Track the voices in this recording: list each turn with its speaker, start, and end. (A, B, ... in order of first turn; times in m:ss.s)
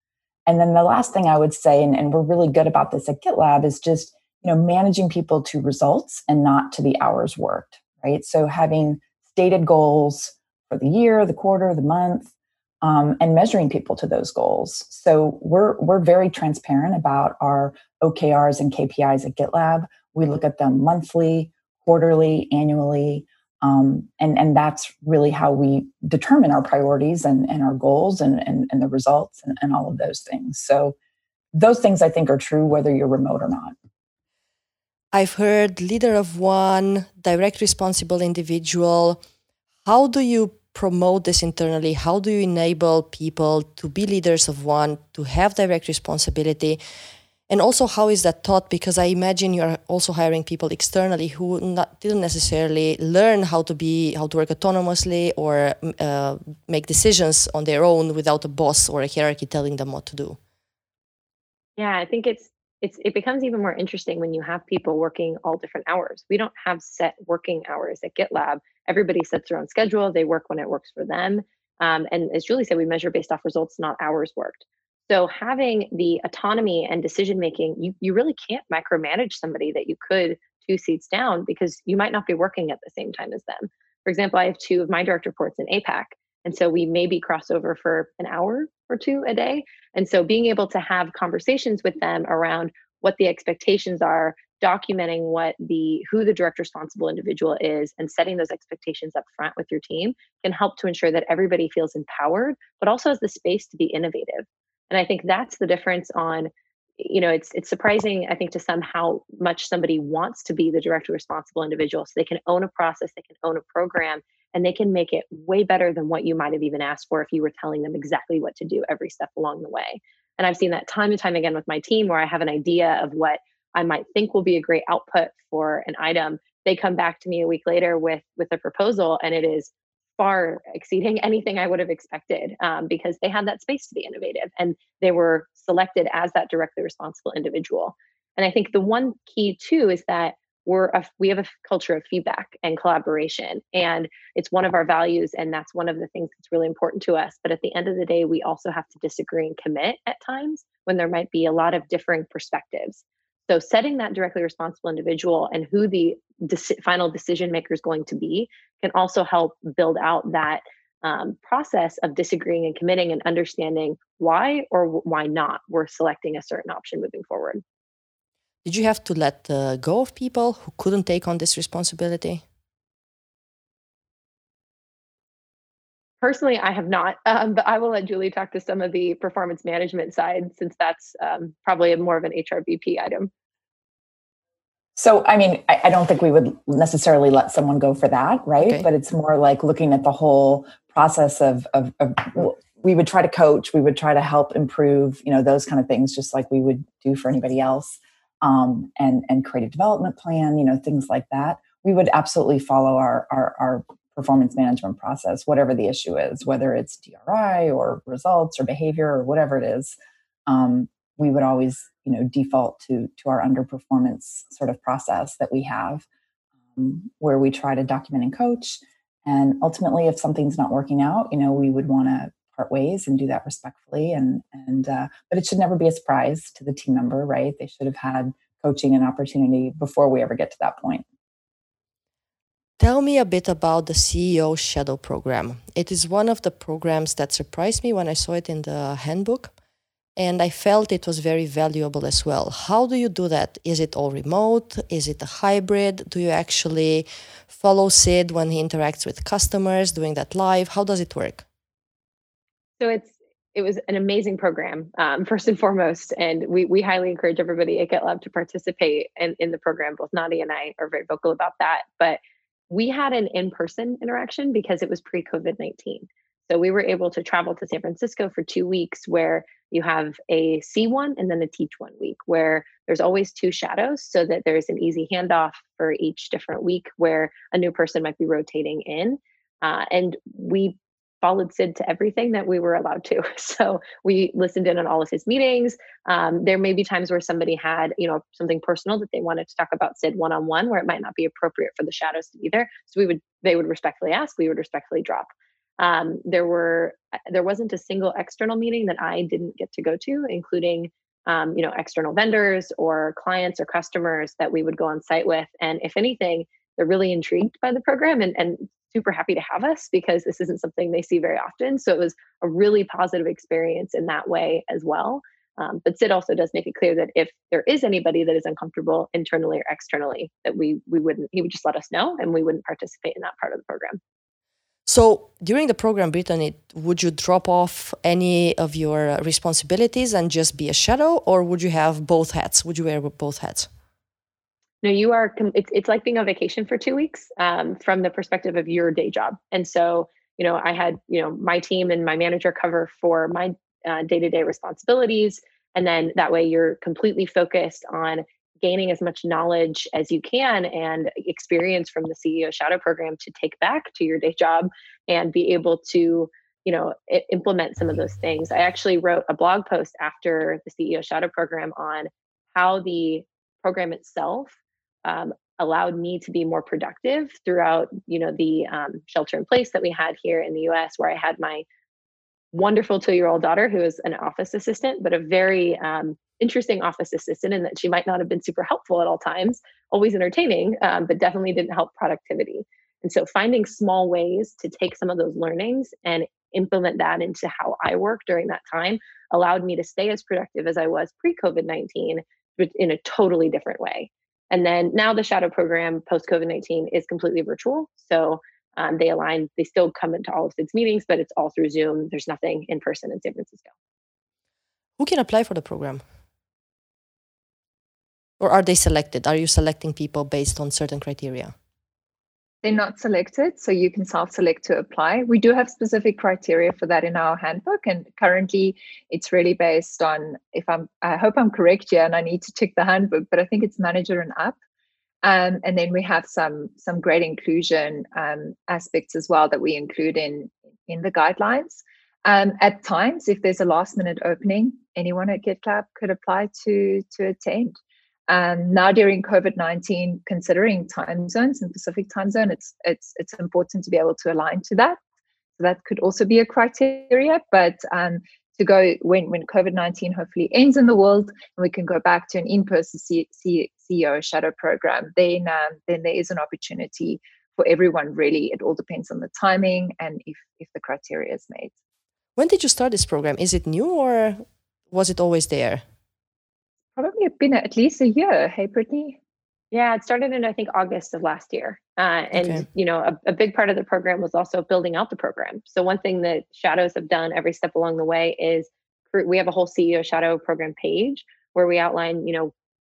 0:00.4-0:30.9 A
0:31.5-0:33.7 A
0:35.1-0:39.2 B
0:39.8-0:46.8 B
0:47.5-1:00.4 B
1:01.8-2:47.6 C
2:48.6-2:52.4 B
2:56.2-3:03.3 C
3:05.0-3:29.9 A
3:08.6-3:08.8 B
3:30.5-3:36.0 A
3:36.8-3:51.0 A
3:52.8-3:59.5 B
4:00.2-4:11.4 B
4:12.8-5:24.0 C
5:24.8-5:33.7 B
5:34.8-6:11.6 C
6:12.5-6:43.7 C
6:45.0-6:46.0 B
6:48.4-6:51.5 B
6:52.6-7:04.6 D
7:05.2-7:17.8 D
7:18.3-7:25.0 D
7:25.6-7:41.7 D
7:42.4-7:45.8 B
7:47.0-7:49.2 D
7:49.7-8:02.5 C
7:52.3-7:52.6 B